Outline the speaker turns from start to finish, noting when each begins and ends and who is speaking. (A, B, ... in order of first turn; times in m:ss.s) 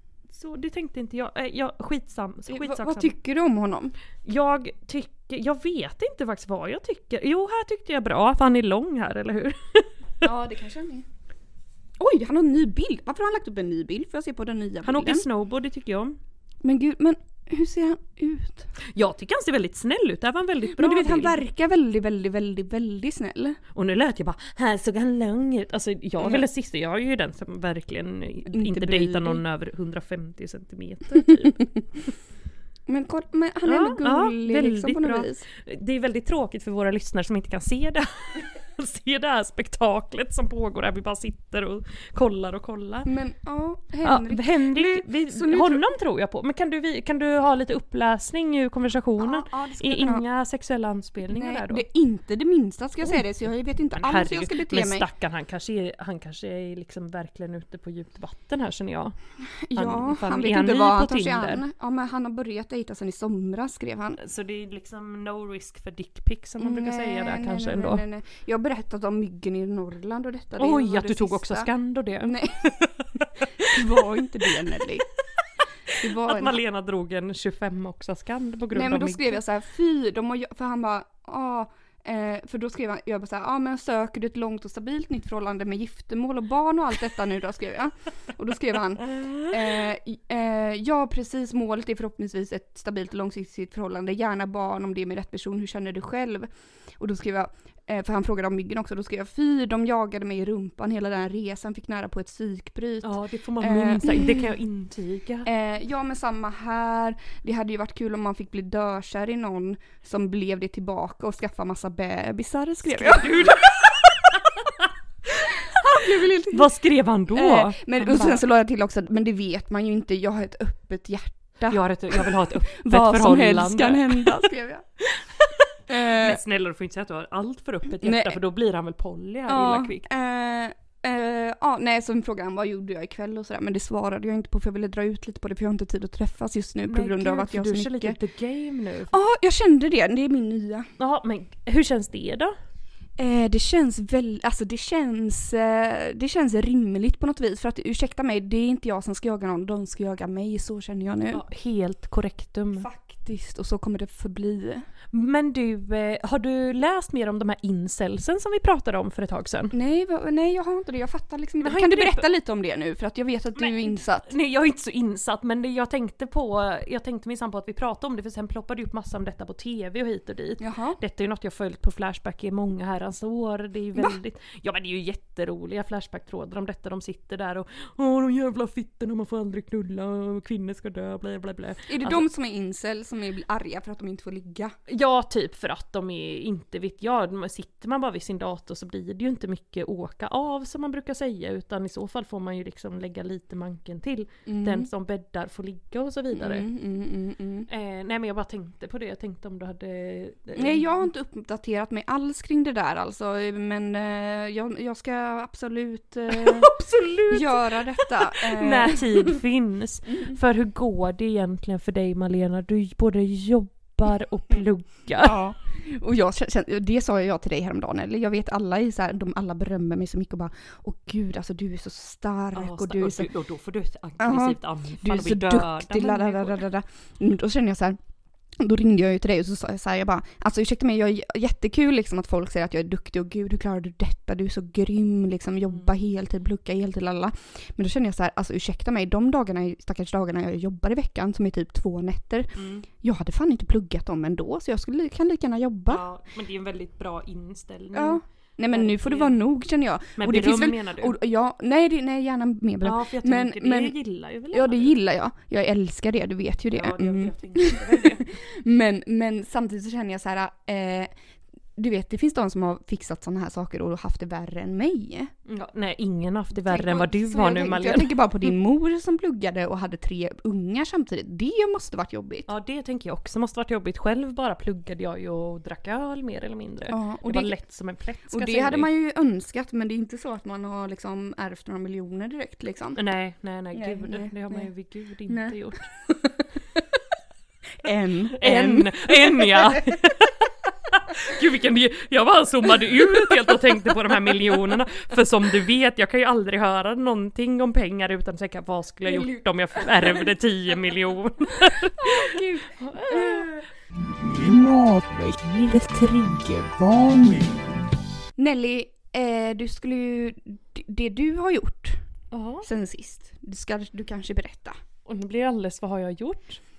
0:00.3-0:03.1 A
0:02.5-0:03.9 B
0:04.2-0:09.9 A
0:10.2-0:11.0 B
0:12.0-0:15.2 B
0:14.8-0:16.2 A
0:16.6-0:18.7 B
0:18.8-0:21.4 A
0:20.7-0:23.6 B
0:23.7-0:31.6 A
0:28.5-0:29.4 B
0:32.9-0:35.4 B
0:33.6-0:43.1 A
0:43.0-0:45.8 B
0:44.0-0:51.8 A
0:49.2-0:50.2 B
0:51.2-0:55.0 B
0:53.9-0:59.2 A
0:59.6-1:04.2 B
0:59.8-1:01.6 A
1:04.2-1:08.0 A
1:06.6-1:11.7 B
1:10.6-1:14.0 A
1:12.2-1:12.8 B
1:13.6-1:15.0 B
1:15.9-1:16.6 B
1:16.0-1:19.4 A
1:18.7-1:44.5 B
1:29.1-1:29.7 A
1:43.0-1:45.5 A
1:45.4-1:53.9 B
1:52.8-1:54.8 A
1:55.5-1:56.7 B
1:56.0-1:58.4 A
1:57.3-2:04.8 B
2:01.7-2:04.4 A
2:05.2-2:10.1 A
2:05.9-2:06.4 B
2:08.0-2:08.4 B
2:09.5-2:18.2 B
2:16.9-2:19.1 A
2:19.1-2:20.9 B
2:21.0-2:22.5 A
2:23.2-2:31.4 B
2:31.3-2:32.9 A
2:32.7-2:34.8 B
2:35.1-2:39.7 A
2:39.7-2:44.3 B
2:41.6-2:42.2 A
2:43.6-3:02.2 A
2:50.6-2:51.0 B
3:01.9-3:04.7 B
3:04.9-3:16.7 A
3:14.4-3:14.9 B
3:16.3-3:17.7 B
3:17.7-3:21.0 A
3:20.6-3:26.7 B
3:26.3-3:35.4 A
3:27.3-3:29.4 B
3:35.2-3:43.3 B
3:42.5-3:46.6 A
3:44.2-3:48.0 B
3:48.6-4:06.0 B
4:02.5-4:02.8 A
4:05.9-4:09.4 A
4:07.9-4:14.0 B
4:10.2-4:11.2 A
4:12.8-4:14.9 A
4:14.5-4:21.1 B
4:16.7-4:18.3 A
4:21.8-4:25.3 B
4:25.4-4:28.5 A
4:26.6-4:32.5 B
4:32.5-4:38.9 A
4:36.9-4:37.6 B
4:38.3-4:43.0 B
4:43.0-4:45.9 A
4:43.7-4:44.7 B
4:45.3-4:45.6 B
4:47.8-4:49.8 B
4:48.3-5:03.6 A
4:59.1-5:00.3 B
5:01.6-5:03.7 B
5:08.4-5:12.0 B
5:12.3-5:12.6 A
5:12.6-5:14.7 B
5:15.0-5:16.6 A